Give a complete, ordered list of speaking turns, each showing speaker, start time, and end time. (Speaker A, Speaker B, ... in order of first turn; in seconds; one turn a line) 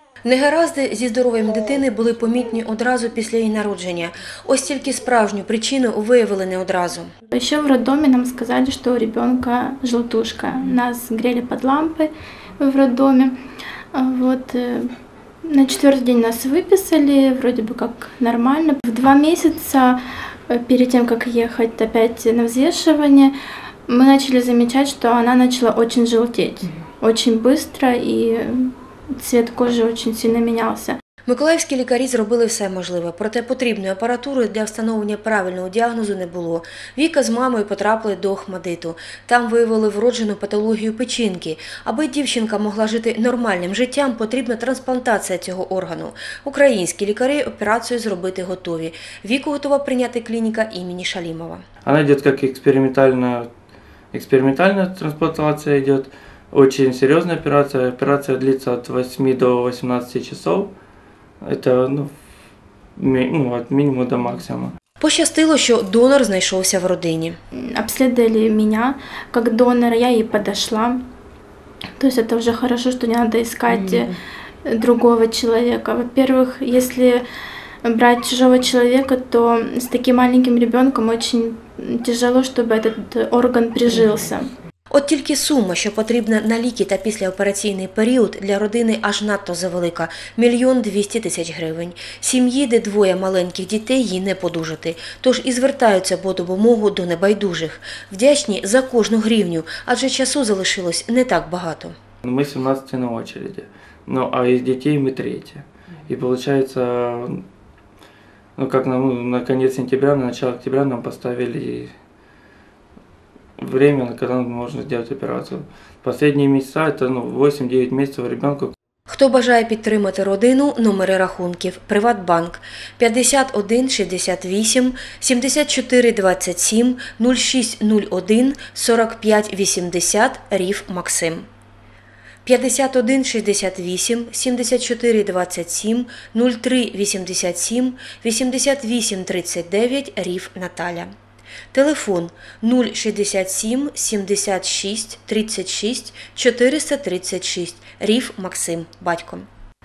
Speaker A: 0.2-7.1
Speaker B: 7.3-13.3
Speaker B: 13.9-14.9
Speaker B: 15.4-23.3
Speaker B: 23.9-31.0
Speaker A: 31.2-51.6
Speaker C: 51.8-53.5
Speaker C: 54.1-60.7
Speaker C: 61.4-62.1
Speaker C: 63.0-64.7
Speaker A: 65.0-67.4
Speaker B: 67.5-71.0
Speaker B: 72.0-77.2
Speaker B: 77.8-84.5
Speaker A: 84.9-101.9
Speaker C: 102.2-107.4
Speaker C: 108.5-111.9
Speaker C: 113.6-118.7
Speaker A: 119.1-131.5
Speaker A: 132.4-141.1
Speaker A: 141.7-149.5